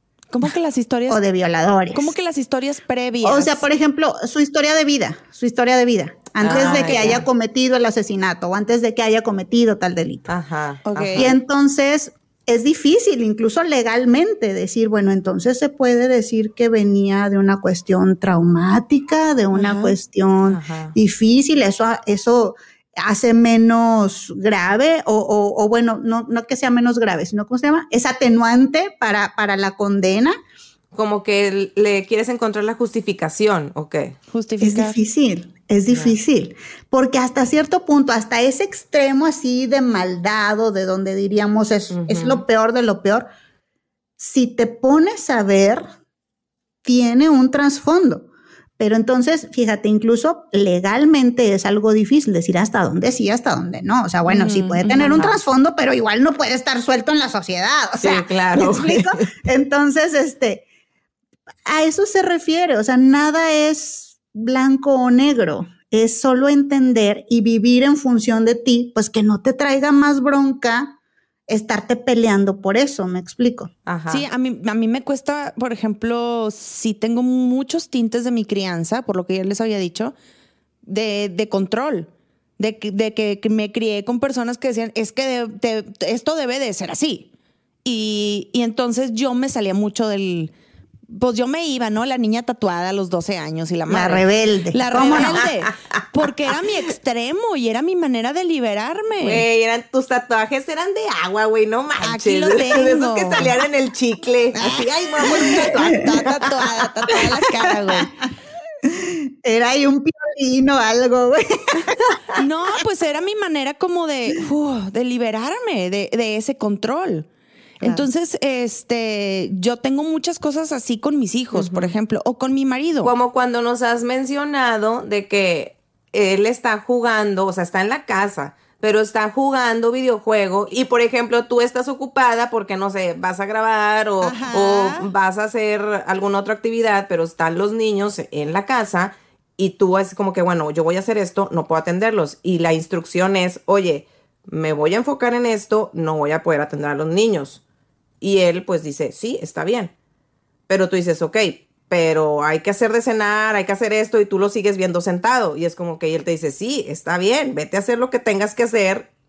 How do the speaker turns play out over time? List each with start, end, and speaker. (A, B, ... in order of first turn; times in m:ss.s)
0:00.3-0:01.2 A
0:01.1-0:02.1 B
0:01.9-0:03.7 A
0:03.2-0:10.3 B
0:06.4-0:07.2 C
0:06.5-0:07.2 A
0:10.3-0:11.4 C
0:10.9-0:11.4 A
0:11.2-0:30.4 B
0:19.5-0:20.0 A
0:20.5-0:21.0 C
0:31.0-0:34.2 C
0:34.3-0:35.0 A
0:34.6-0:43.3 B
0:35.9-0:36.1 C
0:41.9-0:42.4 C
0:44.2-0:45.8 B
0:46.8-0:48.3 B
0:48.8-1:00.6 B
0:54.2-0:55.3 A
0:55.1-0:55.4 C
0:58.0-0:59.2 C
1:01.7-1:11.0 B
1:11.5-1:13.7 B
1:13.9-1:14.2 C
1:14.1-1:20.2 A
1:20.9-1:27.3 A
1:27.8-1:30.5 A
1:31.1-1:39.4 A
1:33.9-1:35.4 B
1:39.2-1:46.4 C
1:42.0-1:43.5 A
1:44.6-1:48.1 A
1:47.6-1:48.1 B
1:48.8-1:52.1 B
1:52.4-1:57.3 A
1:57.8-1:58.1 B
1:57.8-2:03.1 A
2:01.5-2:02.0 C
2:03.0-2:27.6 C
2:14.2-2:15.1 A
2:28.2-2:29.9 C
2:30.7-2:39.1 C